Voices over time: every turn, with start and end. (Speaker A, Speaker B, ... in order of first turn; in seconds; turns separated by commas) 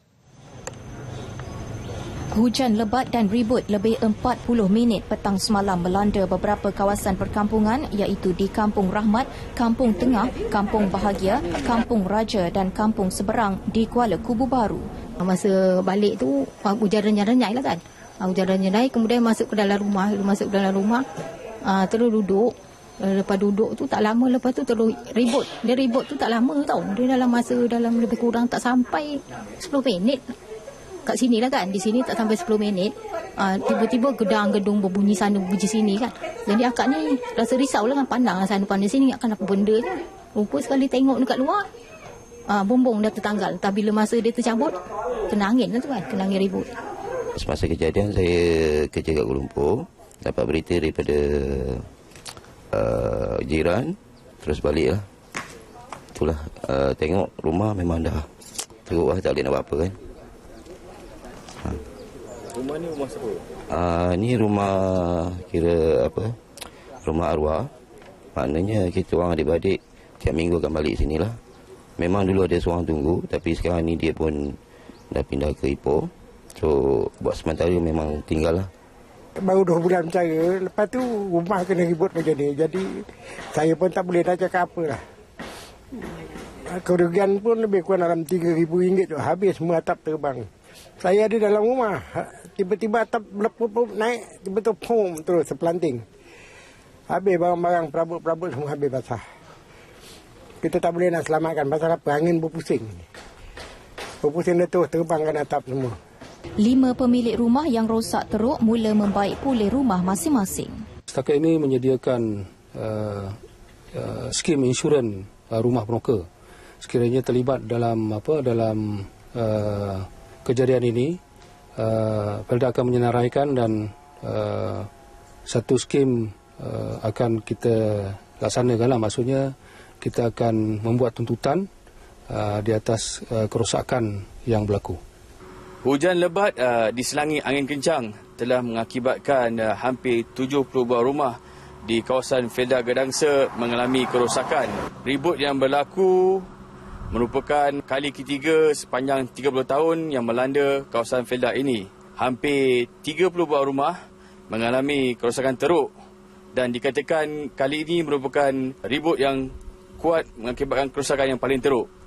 Speaker A: 2.3-14.8, Speaker B: 15.2-21.0, Speaker B: 21.6-30.3, Speaker B: 31.1-41.6, Speaker B: 42.5-44.8, Speaker B: 45.3-46.7, Speaker C: 47.3-51.9, Speaker C: 52.7-55.1, Speaker C: 56.1-58.3, Speaker C: 58.9-60.0, Speaker C: 63.7-66.4, Speaker C: 67.0-67.7, Speaker C: 68.3-71.4, Speaker C: 72.0-74.6, Speaker C: 75.1-78.7, Speaker D: 79.4-85.0, Speaker D: 86.7-90.5, Speaker D: 91.0-96.0, Speaker D: 97.1-99.2, Speaker D: 100.6-103.0, Speaker D: 104.2-106.0, Speaker A: 106.6-110.8, Speaker E: 111.1-113.3, Speaker E: 113.9-116.2, Speaker E: 116.8-121.2, Speaker E: 121.8-124.9, Speaker E: 125.5-131.7, Speaker E: 132.3-135.0, Speaker F: 135.8-146.5, Speaker F: 147.1-154.0, Speaker F: 154.5-155.9, Speaker F: 156.5-161.9